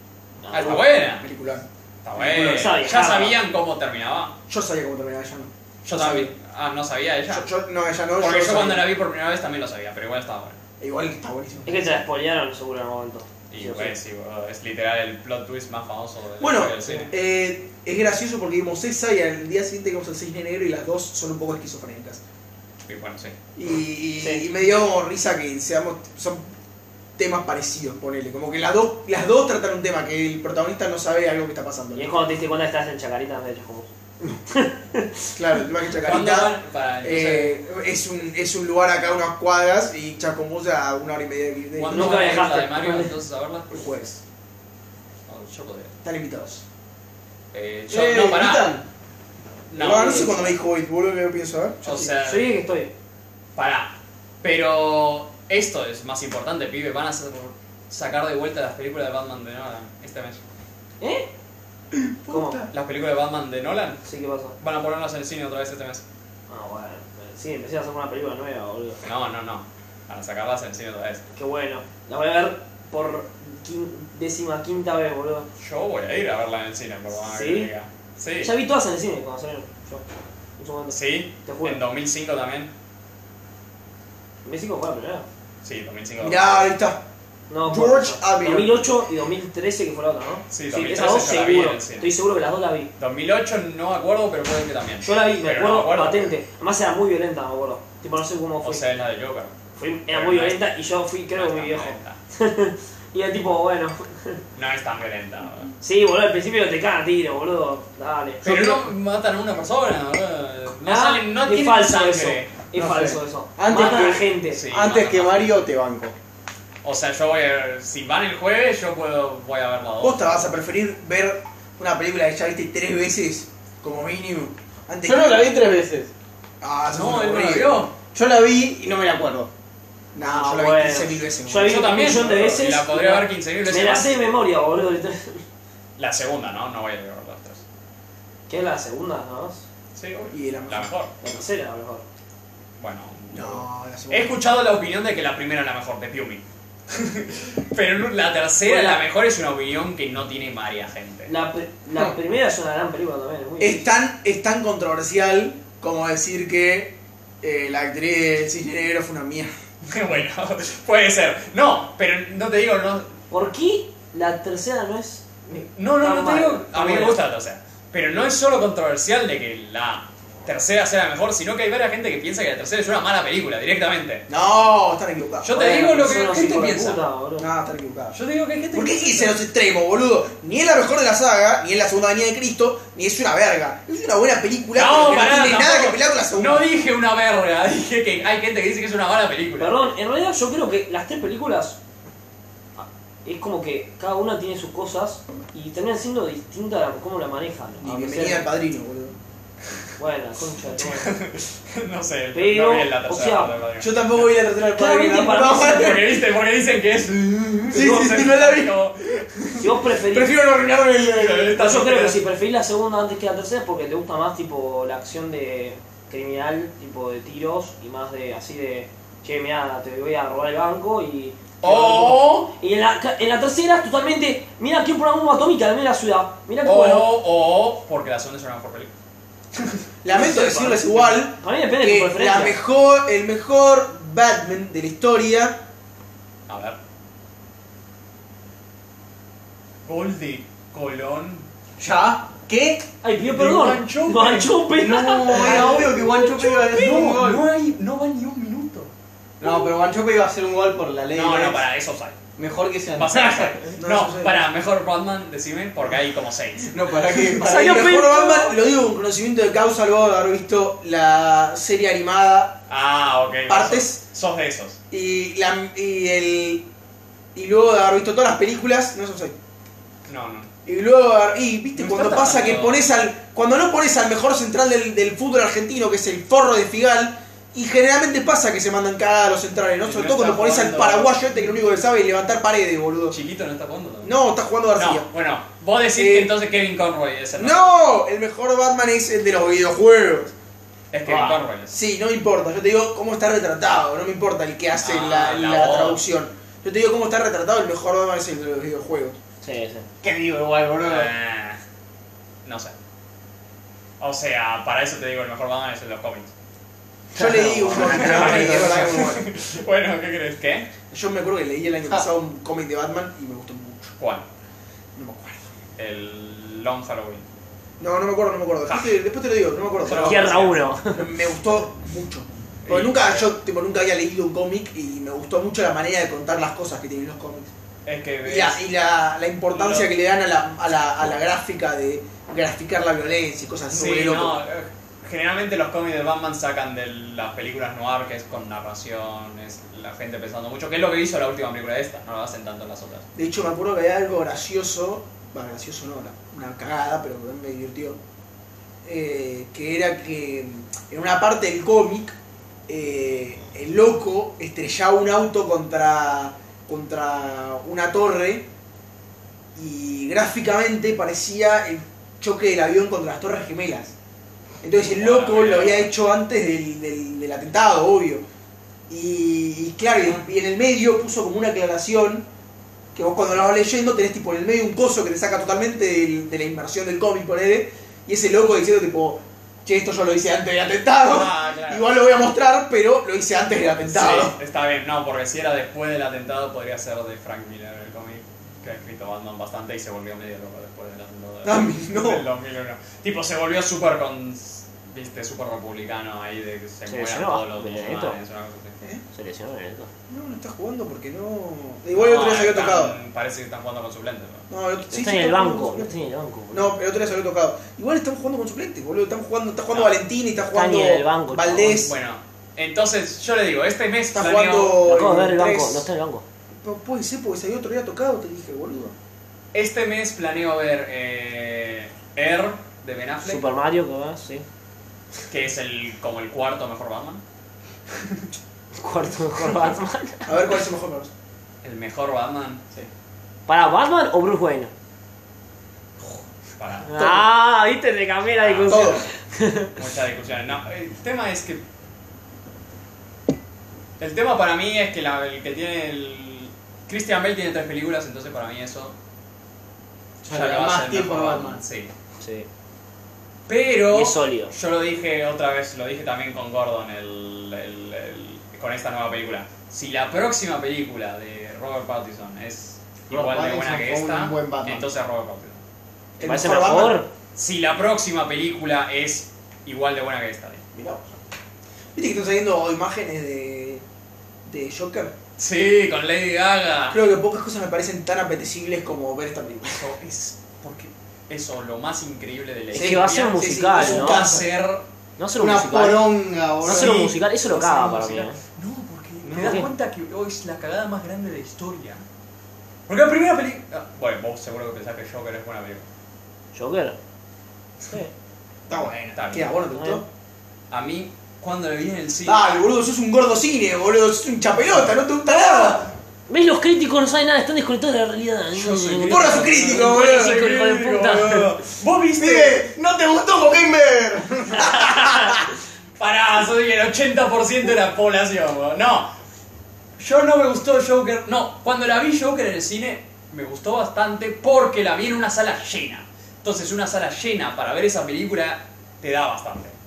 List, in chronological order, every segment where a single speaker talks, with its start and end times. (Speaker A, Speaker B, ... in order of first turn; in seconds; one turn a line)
Speaker A: 0.4-0.8
Speaker B: 0.5-1.2
Speaker C: 0.6-1.6
Speaker B: 2.0-4.3
Speaker A: 2.2-3.4
Speaker C: 4.5-6.3
Speaker B: 5.8-7.5
Speaker C: 7.3-8.9
Speaker B: 8.2-10.6
Speaker C: 10.8-11.9
Speaker A: 11.7-13.9
Speaker B: 13.5-17.1
Speaker C: 16.4-22.2
Speaker B: 22.9-23.4
Speaker C: 23.6-26.4
Speaker A: 24.2-24.4
Speaker C: 27.2-32.1
Speaker A: 31.9-33.9
Speaker A: 34.5-35.3
Speaker C: 35.3-42.5
Speaker B: 36.0-37.6
Speaker B: 41.8-43.7
Speaker A: 41.9-43.1
Speaker C: 43.7-44.2
Speaker B: 45.2-45.9
Speaker C: 46.0-46.6
Speaker B: 47.5-48.8
Speaker D: 47.9-48.8
Speaker B: 49.7-50.5
Speaker C: 49.7-52.1
Speaker B: 51.8-52.5
Speaker A: 52.2-52.9
Speaker B: 53.5-60.4
Speaker A: 61.0-61.3
Speaker C: 61.9-62.7
Speaker A: 62.3-62.6
Speaker B: 62.7-64.0
Speaker A: 64.0-64.5
Speaker B: 64.6-66.0
Speaker A: 66.5-69.0
Speaker B: 69.0-71.3
Speaker A: 71.3-75.5
Speaker B: 75.6-78.5
Speaker A: 77.2-77.7
Speaker A: 78.4-80.0
Speaker A: 80.6-81.8
Speaker B: 80.9-82.7
Speaker A: 84.4-85.2
Speaker B: 85.6-86.6
Speaker C: 86.2-87.0
Speaker A: 87.5-92.9
Speaker D: 87.7-88.6
Speaker C: 87.8-88.7
Speaker B: 90.5-92.1
Speaker B: 93.0-96.3
Speaker A: 95.0-98.8
Speaker B: 98.6-99.5
Speaker A: 99.8-104.4
Speaker B: 100.1-100.6
Speaker B: 101.3-102.2
Speaker B: 104.5-105.7
Speaker A: 105.8-108.5
Speaker B: 108.4-112.5
Speaker D: 108.5-108.8
Speaker A: 110.8-114.6
Speaker D: 112.7-116.1
Speaker B: 113.7-115.6
Speaker B: 116.8-120.5
Speaker C: 120.0-125.6
Speaker D: 125.0-126.1
Speaker C: 126.6-127.9
Speaker B: 126.9-127.9
Speaker D: 128.1-129.5
Speaker C: 130.1-131.9
Speaker A: 130.2-135.4
Speaker B: 131.6-134.1
Speaker B: 136.0-137.6
Speaker A: 138.5-139.6
Speaker B: 139.9-141.1
Speaker C: 140.3-140.9
Speaker A: 141.2-142.0
Speaker B: 142.8-151.3
Speaker C: 143.3-144.3
Speaker A: 148.6-149.0
Speaker A: 151.2-153.9
Speaker C: 153.6-159.5
Speaker B: 159.8-163.1
Speaker A: 163.3-167.2
Speaker B: 165.7-174.2
Speaker C: 174.3-175.5
Speaker B: 175.4-177.0
Speaker A: 175.5-177.5
Speaker C: 177.4-178.2
Speaker B: 178.1-179.3
Speaker C: 178.7-186.7
Speaker B: 184.7-189.7
Speaker A: 189.6-191.8
Speaker A: 192.8-198.5
Speaker C: 197.8-199.1
Speaker A: 200.0-201.2
Speaker B: 200.8-204.2
Speaker A: 202.3-203.6
Speaker C: 203.8-206.1
Speaker A: 204.7-206.0
Speaker B: 205.5-209.4
Speaker C: 207.7-208.8
Speaker A: 209.6-210.3
Speaker C: 210.1-211.5
Speaker B: 211.1-212.2
Speaker A: 211.5-227.1
Speaker B: 221.6-222.5
Speaker B: 226.6-228.9
Speaker C: 230.0-235.6
Speaker B: 230.1-231.2
Speaker A: 231.3-232.6
Speaker B: 236.5-236.8
Speaker B: 239.8-241.4
Speaker D: 241.8-242.8
Speaker A: 243.0-246.8
Speaker B: 243.3-244.6
Speaker D: 244.7-247.4
Speaker B: 245.3-245.9
Speaker C: 245.5-245.9
Speaker B: 246.7-248.9
Speaker D: 249.4-251.6
Speaker A: 249.4-249.7
Speaker B: 251.1-252.2
Speaker D: 252.4-253.6
Speaker B: 252.9-256.9
Speaker C: 253.8-254.4
Speaker D: 256.7-257.8
Speaker C: 257.4-262.6
Speaker A: 257.4-258.6
Speaker B: 262.7-264.8
Speaker C: 263.5-264.0
Speaker C: 264.9-266.6
Speaker C: 267.3-269.3
Speaker B: 270.1-270.5
Speaker C: 270.6-283.2
Speaker B: 271.8-272.8
Speaker B: 279.8-281.1
Speaker B: 283.1-284.1
Speaker C: 284.0-285.1
Speaker B: 284.8-287.7
Speaker C: 285.9-286.3
Speaker C: 287.4-290.3
Speaker B: 290.9-291.7
Speaker A: 291.1-291.4
Speaker C: 291.7-299.2
Speaker B: 294.8-296.0
Speaker A: 299.4-299.9
Speaker D: 300.0-301.1
Speaker B: 300.8-301.6
Speaker B: 302.4-302.7
Speaker B: 304.0-306.3
Speaker C: 307.1-309.2
Speaker D: 307.2-309.0
Speaker B: 307.7-310.7
Speaker C: 310.9-313.9
Speaker B: 314.0-314.2
Speaker C: 314.9-315.5
Speaker B: 315.8-317.2
Speaker C: 317.8-320.4
Speaker B: 318.7-318.9
Speaker B: 319.8-320.6
Speaker A: 319.9-321.1
Speaker C: 320.9-327.5
Speaker B: 322.6-323.3
Speaker B: 327.9-328.6
Speaker C: 328.2-334.3
Speaker B: 329.5-329.9
Speaker B: 333.7-343.0
Speaker C: 343.1-348.0
Speaker C: 348.8-352.1
Speaker C: 352.7-358.4
Speaker C: 359.5-363.9
Speaker C: 364.6-368.2
Speaker B: 364.9-365.9
Speaker C: 368.9-372.3
Speaker C: 372.9-384.4
Speaker B: 381.0-381.9
Speaker B: 383.7-398.8
Speaker C: 391.4-392.2
Speaker A: 396.9-398.2
Speaker A: 399.1-399.9
Speaker C: 400.1-402.9
Speaker B: 401.9-404.4
Speaker C: 404.5-405.9
Speaker A: 404.9-406.7
Speaker C: 406.5-411.9
Speaker A: 410.4-411.9
Speaker B: 411.8-414.9
Speaker C: 414.1-415.9
Speaker A: 414.8-416.2
Speaker C: 416.5-418.9
Speaker B: 419.5-423.4
Speaker A: 423.2-424.4
Speaker B: 425.3-427.2
Speaker A: 428.8-430.3
Speaker C: 430.2-431.1
Speaker B: 431.6-432.6
Speaker A: 433.5-434.7
Speaker B: 436.6-437.2
Speaker A: 436.9-439.7
Speaker B: 438.3-439.1
Speaker C: 438.6-439.1
Speaker B: 439.7-441.6
Speaker B: 444.0-448.9
Speaker D: 450.2-451.6
Speaker B: 450.3-451.9
Speaker A: 452.2-452.5
Speaker B: 453.5-465.6
Speaker A: 453.9-454.5
Speaker D: 463.1-464.9
Speaker C: 466.2-467.0
Speaker A: 466.2-467.1
Speaker B: 467.3-470.6
Speaker C: 470.7-471.1
Speaker C: 471.9-473.8
Speaker C: 474.4-475.1
Speaker B: 475.4-477.0
Speaker C: 476.9-479.9
Speaker B: 479.7-484.8
Speaker A: 482.7-484.2
Speaker C: 482.7-484.5
Speaker A: 485.2-486.1
Speaker D: 485.4-487.1
Speaker A: 486.6-488.4
Speaker B: 486.6-492.0
Speaker A: 489.3-489.7
Speaker B: 492.9-495.8
Speaker A: 496.5-497.0
Speaker A: 497.9-498.1
Speaker C: 498.7-500.1
Speaker B: 498.7-499.5
Speaker A: 499.7-500.0
Speaker B: 500.7-502.5
Speaker C: 502.2-505.9
Speaker A: 505.4-511.5
Speaker B: 508.5-512.6
Speaker C: 509.1-510.4
Speaker D: 512.2-515.4
Speaker B: 514.6-515.4
Speaker B: 516.0-519.1
Speaker B: 520.0-529.7